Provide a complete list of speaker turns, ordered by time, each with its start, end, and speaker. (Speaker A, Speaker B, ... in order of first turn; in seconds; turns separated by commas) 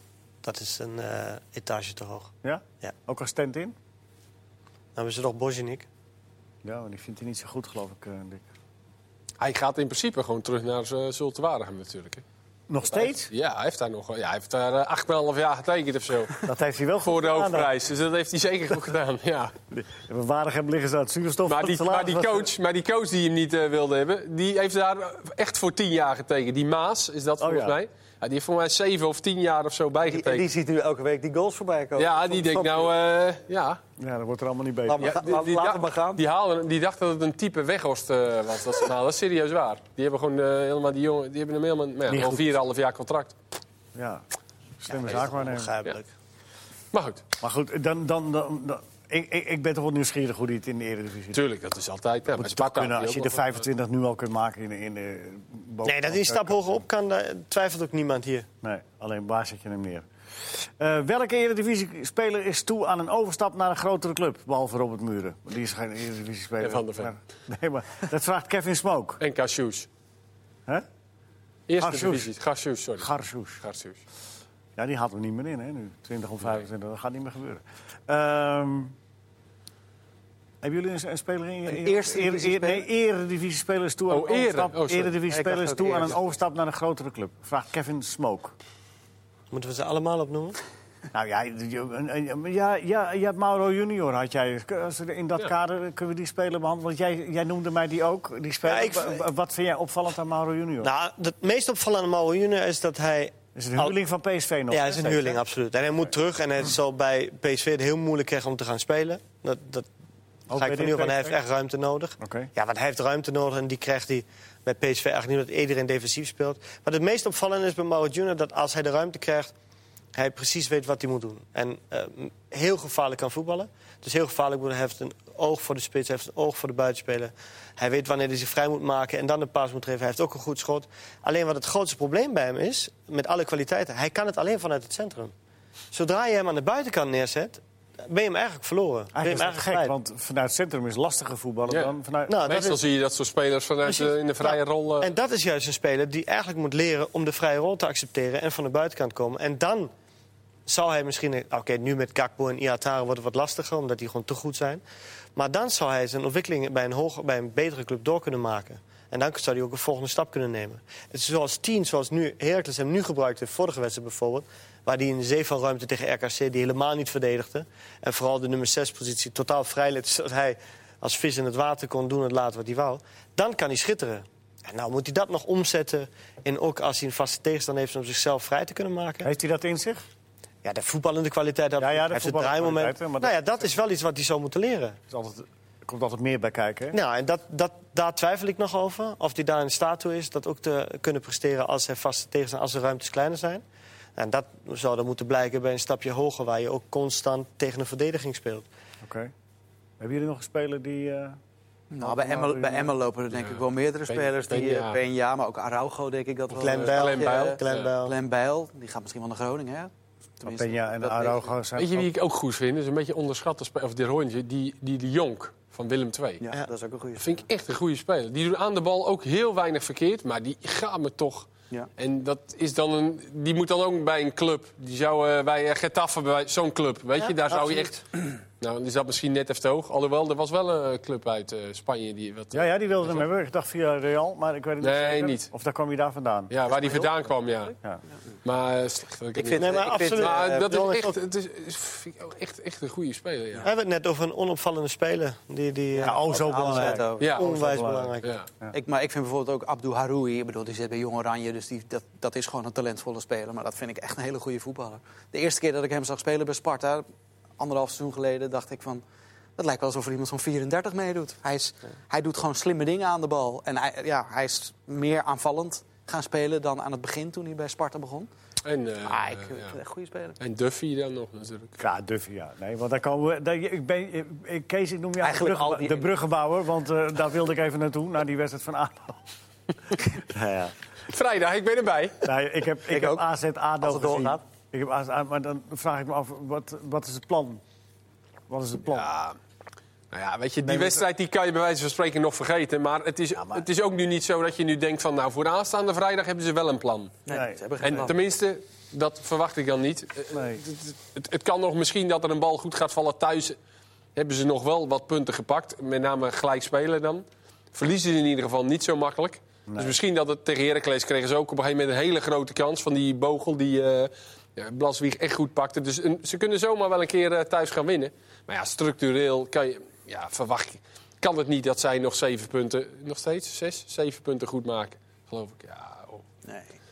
Speaker A: 0.4-2.9, Speaker B: 2.4-3.8, Speaker A: 4.9-5.9, Speaker B: 6.6-8.4, Speaker C: 9.4-12.2, Speaker B: 12.7-13.3, Speaker C: 12.9-16.4, Speaker B: 16.4-17.7, Speaker C: 17.0-19.5, Speaker B: 19.7-22.5, Speaker C: 21.5-30.5, Speaker B: 27.4-27.8, Speaker D: 30.0-32.9, Speaker C: 32.0-33.8, Speaker B: 34.0-35.2, Speaker D: 34.9-36.2, Speaker C: 35.0-43.4, Speaker B: 42.1-42.5, Speaker B: 43.9-44.2, Speaker B: 44.8-45.7, Speaker D: 44.9-46.0, Speaker C: 46.9-47.2, Speaker B: 47.4-51.4, Speaker C: 51.3-53.6, Speaker B: 52.3-56.6, Speaker A: 55.8-58.5, Speaker B: 58.6-69.2, Speaker C: 66.6-67.1, Speaker C: 69.2-69.9, Speaker C: 71.7-74.0, Speaker B: 71.8-72.3, Speaker B: 73.0-73.6, Speaker B: 74.8-78.9, Speaker B: 80.6-88.5, Speaker D: 81.7-82.9, Speaker C: 84.1-85.2, Speaker D: 85.3-86.2, Speaker A: 89.5-90.6, Speaker B: 91.1-100.9, Speaker A: 98.6-99.2, Speaker A: 100.8-103.9, Speaker B: 103.5-105.4, Speaker A: 104.7-109.9, Speaker B: 110.5-111.4, Speaker A: 110.5-119.5, Speaker B: 112.2-112.5, Speaker A: 120.1-135.3, Speaker A: 135.9-139.9, Speaker B: 139.1-142.4, Speaker C: 141.7-145.1, Speaker A: 142.3-142.8, Speaker A: 143.8-149.9, Speaker A: 150.7-154.8, Speaker A: 155.3-179.3, Speaker B: 179.2-180.0, Speaker A: 180.6-185.0, Speaker B: 181.8-183.3, Speaker B: 185.1-186.9, Speaker A: 186.9-193.6, Speaker A: 194.2-198.7, Speaker B: 199.0-199.3, Speaker B: 200.0-201.4, Speaker D: 201.9-211.5, Speaker B: 202.0-202.9, Speaker C: 203.3-205.0, Speaker C: 206.5-207.9, Speaker A: 206.6-208.1, Speaker B: 210.5-212.1, Speaker C: 211.8-216.4, Speaker D: 216.4-217.4, Speaker C: 217.2-233.2, Speaker A: 227.2-227.9, Speaker B: 232.5-236.5, Speaker C: 234.8-235.5, Speaker C: 236.5-237.7, Speaker D: 236.7-237.1, Speaker C: 238.4-243.7, Speaker D: 239.3-240.4, Speaker A: 239.5-241.2, Speaker A: 243.6-248.3, Speaker D: 245.9-247.4, Speaker B: 246.0-248.7, Speaker C: 247.2-247.4, Speaker D: 248.7-257.1, Speaker D: 257.6-259.0, Speaker D: 259.6-268.3, Speaker C: 268.6-269.8, Speaker D: 269.0-270.4, Speaker C: 270.4-271.8, Speaker B: 271.8-279.2, Speaker D: 275.2-276.1, Speaker B: 280.1-280.7, Speaker C: 281.1-282.2, Speaker B: 282.2-287.6, Speaker D: 282.9-283.2, Speaker D: 283.8-284.4, Speaker B: 288.5-289.1, Speaker C: 288.9-289.4, Speaker C: 290.1-297.2, Speaker B: 290.6-291.0, Speaker B: 293.3-293.6, Speaker D: 297.2-298.1, Speaker B: 297.3-297.6, Speaker C: 297.8-303.6, Speaker B: 300.3-300.6, Speaker C: 304.1-326.2, Speaker B: 309.7-309.9, Speaker D: 326.4-326.8